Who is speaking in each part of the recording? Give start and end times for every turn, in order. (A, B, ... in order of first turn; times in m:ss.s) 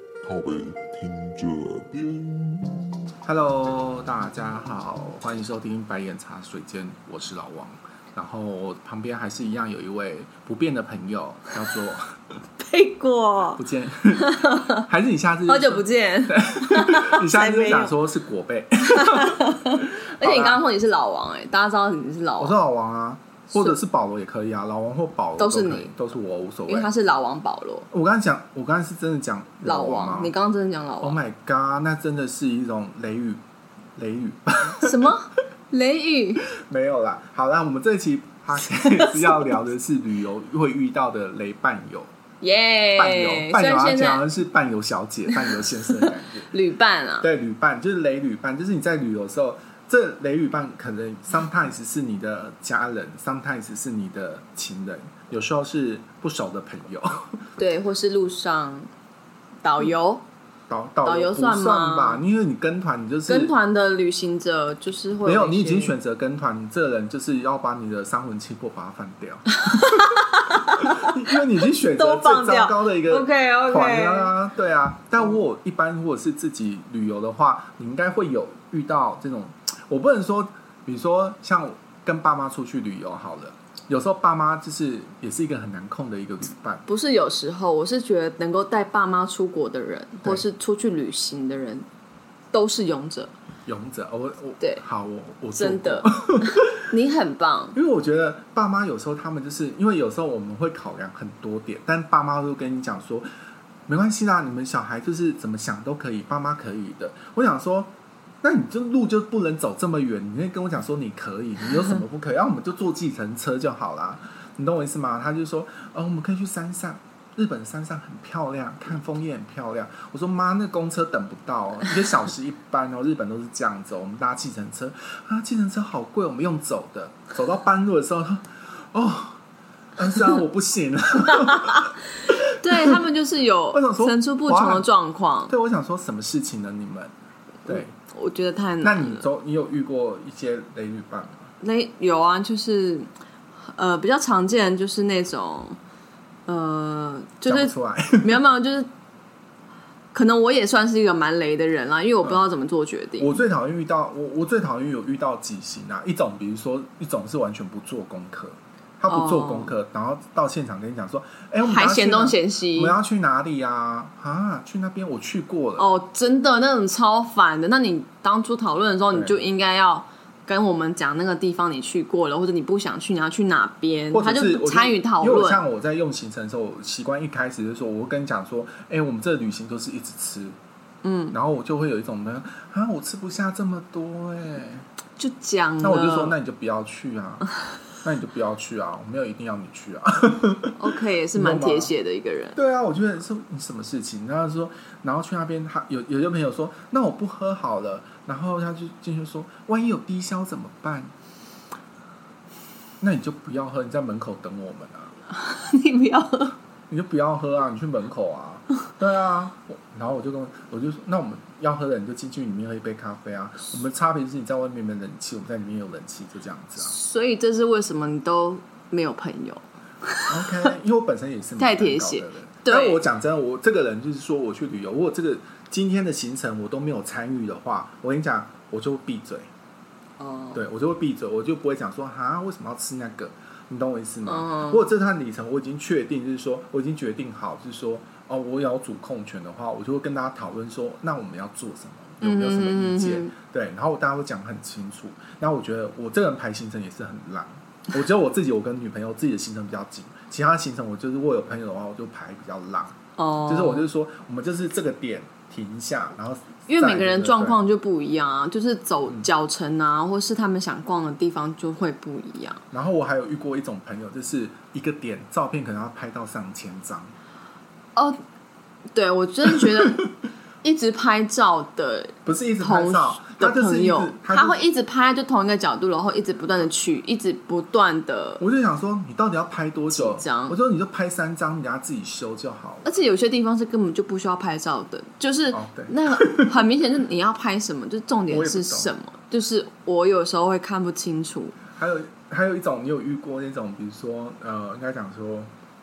0:00.2-0:03.1 A
0:03.2-0:12.1 B
0:12.6-0:13.6 C
0:13.6-0:20.6 B
0:14.2-0:14.9 C
0:15.5-0:17.9 C
0:18.9-0:22.5 C
0:22.4-0:26.9 B
0:25.4-0:25.9 C
0:26.7-0:27.9 C
0:27.9-0:30.3 B
0:29.6-0:31.2 C
0:31.0-0:33.4 B
0:34.0-0:35.1 B
0:34.8-0:36.4 C
0:36.5-0:42.1 B
0:38.8-0:39.5 C
0:42.4-0:44.2 C
0:42.9-0:46.5 B
0:45.9-0:47.3 C
0:47.2-0:57.4 B
0:57.6-0:58.9 C
0:59.6-1:00.2 C
1:00.7-1:03.5 B
1:01.0-1:02.2 C
1:03.3-1:05.9 C
1:05.2-1:26.8 B
1:09.6-1:14.3 C
1:26.9-1:31.8 C
1:32.5-1:33.3 C
1:33.6-1:36.8 B
1:35.5-1:37.8 C
1:37.7-1:43.3 B
1:43.9-1:47.9 B
1:48.4-2:09.4 B
2:10.0-2:13.0 B
2:11.3-2:15.5 C
2:13.7-2:14.9 B
2:15.5-2:17.1 B
2:17.6-2:17.9 B
2:17.7-2:19.2 C
2:18.8-2:21.4 B
2:21.6-2:23.1 C
2:23.7-2:25.8 C
2:26.5-2:28.9 C
2:27.4-2:28.4 B
2:30.1-2:33.4 C
2:33.2-2:45.9 B
2:39.1-2:39.7 C
2:41.6-2:43.0 C
2:45.8-2:55.6 C
2:54.1-3:00.6 B
3:01.0-3:01.3 C
3:01.3-3:04.8 B
3:05.2-3:06.3 C
3:05.8-3:07.4 B
3:08.0-3:11.9 B
3:10.8-3:12.6 C
3:12.6-3:21.1 B
3:23.0-3:25.1 B
3:25.3-3:26.6 C
3:26.9-3:36.9 B
3:36.8-3:40.7 C
3:40.3-3:49.5 B
3:41.6-3:43.0 C
3:50.2-3:50.6 C
3:50.5-4:17.6 B
3:54.2-3:54.8 C
4:02.2-4:03.3 C
4:13.2-4:13.8 C
4:16.7-4:22.6 C
4:22.7-4:27.1 B
4:27.9-4:28.2 C
4:28.9-4:30.1 C
4:30.6-4:38.4 C
4:32.2-4:34.6 B
4:38.4-4:42.9 B
4:39.9-4:40.5 C
4:42.8-4:51.6 C
4:45.5-4:46.5 B
4:48.3-4:48.9 B
4:51.7-4:55.5 B